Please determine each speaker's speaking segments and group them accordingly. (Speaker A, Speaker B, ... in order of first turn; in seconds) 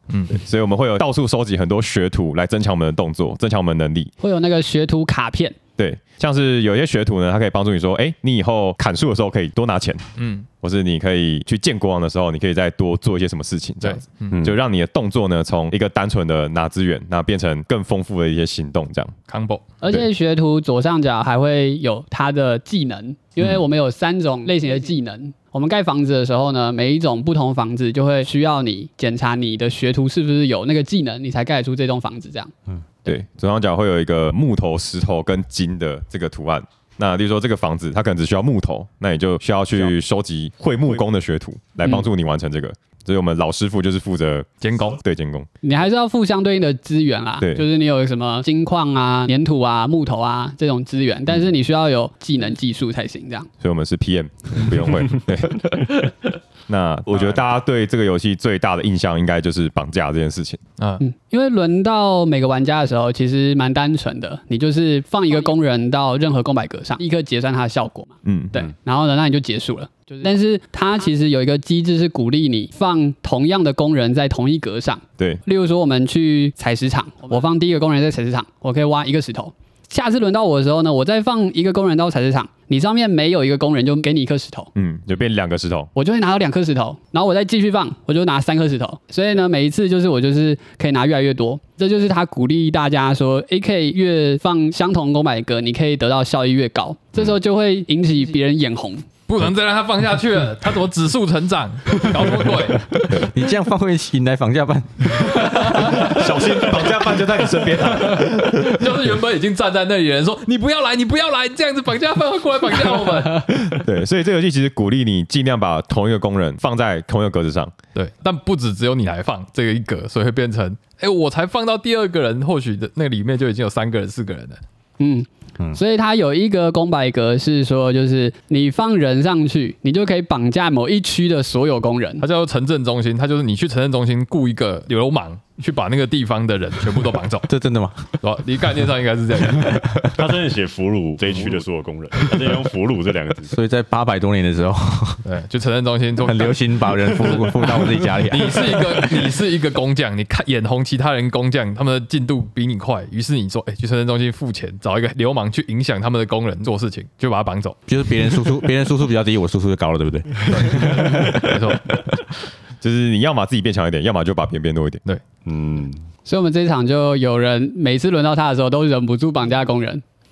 Speaker A: 0.1-0.4, 10.2-10.5, 13.8-14.4, 19.3-19.8, 44.6-45.0, 60.8-61.0, 99.3-102.9, 105.4-106.8, 107.8-113.6, 117.9-124.6, 132.2-137.5, 138.2-140.1, 145.2-157.8, 160.5-162.0
Speaker B: 0.3-4.1, 5.8-19.1, 33.0-45.5, 53.6-55.9, 56.7-60.6, 68.2-68.6, 84.7-85.9, 105.7-108.9, 113.5-117.7, 162.8-165.0
Speaker C: 4.2-5.6, 19.8-32.5, 45.6-53.5, 61.0-84.7, 86.0-99.0, 125.0-132.2, 166.2-170.0
Speaker D: 103.1-105.8, 137.5-138.1, 143.5-145.2, 146.2-149.1, 157.9-161.6
Speaker E: 140.2-143.6, 165.4-166.0